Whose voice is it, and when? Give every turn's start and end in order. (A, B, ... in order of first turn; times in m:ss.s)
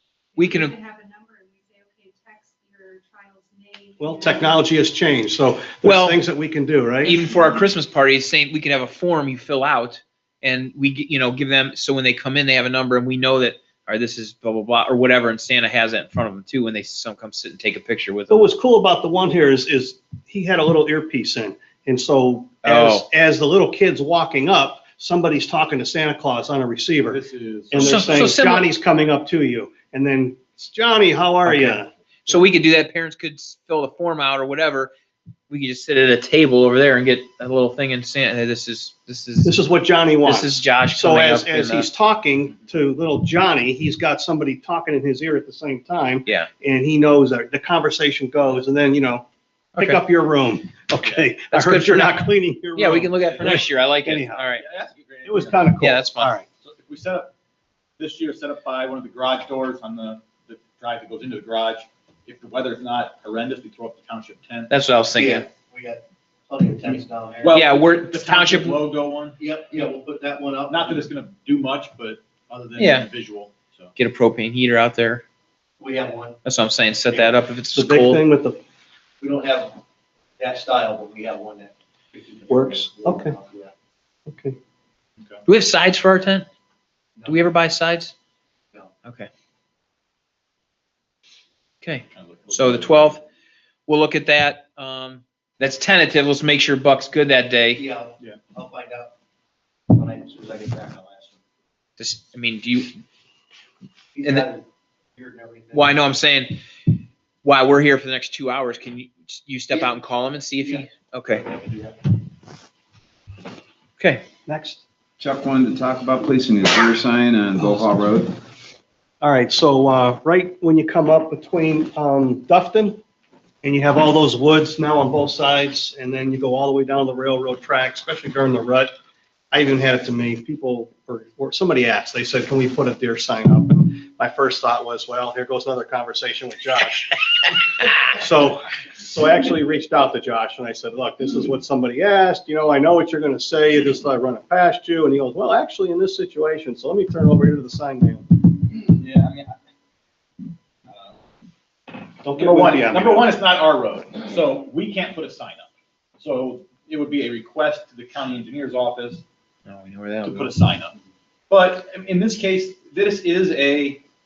0:00.4-0:00.8 A
0:00.4-0:04.5 B
0:04.0-0:07.3 C
0:05.8-0:06.2 A
0:07.0-0:18.5 A
0:18.3-0:27.2 C
0:22.6-0:23.1 A
0:27.1-0:28.1 D
0:27.7-0:31.9 C
0:27.8-0:28.7 A
0:31.4-0:34.9 A
0:35.5-0:39.6 A
0:39.4-0:49.2 C
0:40.2-0:41.9 A
0:49.8-0:50.0 A
0:49.8-0:54.4 C
0:51.0-0:51.3 D
0:51.5-0:54.6 A
0:53.3-0:53.6 D
0:54.6-0:55.7 D
0:55.2-0:56.5 C
0:55.8-0:56.3 A
0:56.6-0:57.3 D
0:58.0-1:04.7 D
1:04.7-1:05.4 A
1:05.2-1:07.6 E
1:06.8-1:09.4 D
1:07.5-1:08.8 A
1:09.4-1:11.0 E
1:10.7-1:13.9 D
1:12.8-1:13.1 A
1:14.0-1:15.2 A
1:15.8-1:16.4 E
1:16.4-1:18.2 A
1:17.7-1:18.6 C
1:19.2-1:19.8 E
1:20.4-1:23.7 E
1:22.5-1:23.4 C
1:24.3-1:24.6 C
1:25.5-1:26.5 A
1:27.2-1:28.1 A
1:31.8-1:33.2 A
1:32.2-1:33.2 D
1:33.9-1:37.8 A
1:37.7-1:39.1 E
1:39.9-1:41.4 E
1:42.0-1:43.0 A
1:44.2-1:44.6 E
1:44.2-1:44.5 A
1:45.2-1:46.0 E
1:45.7-1:46.6 A
1:47.4-1:51.5 A
1:51.5-1:51.8 E
1:54.0-1:54.2 A
1:54.5-1:54.8 C
1:55.2-1:58.4 F
1:59.2-2:03.0 C
2:03.6-2:08.9 C
2:09.5-2:28.5 C
2:29.0-2:29.6 D
2:30.9-2:31.2 D
2:32.2-2:33.3 C
2:32.4-2:39.2 D
2:39.7-2:40.5 A
2:40.2-2:41.0 D
2:41.5-2:44.0 D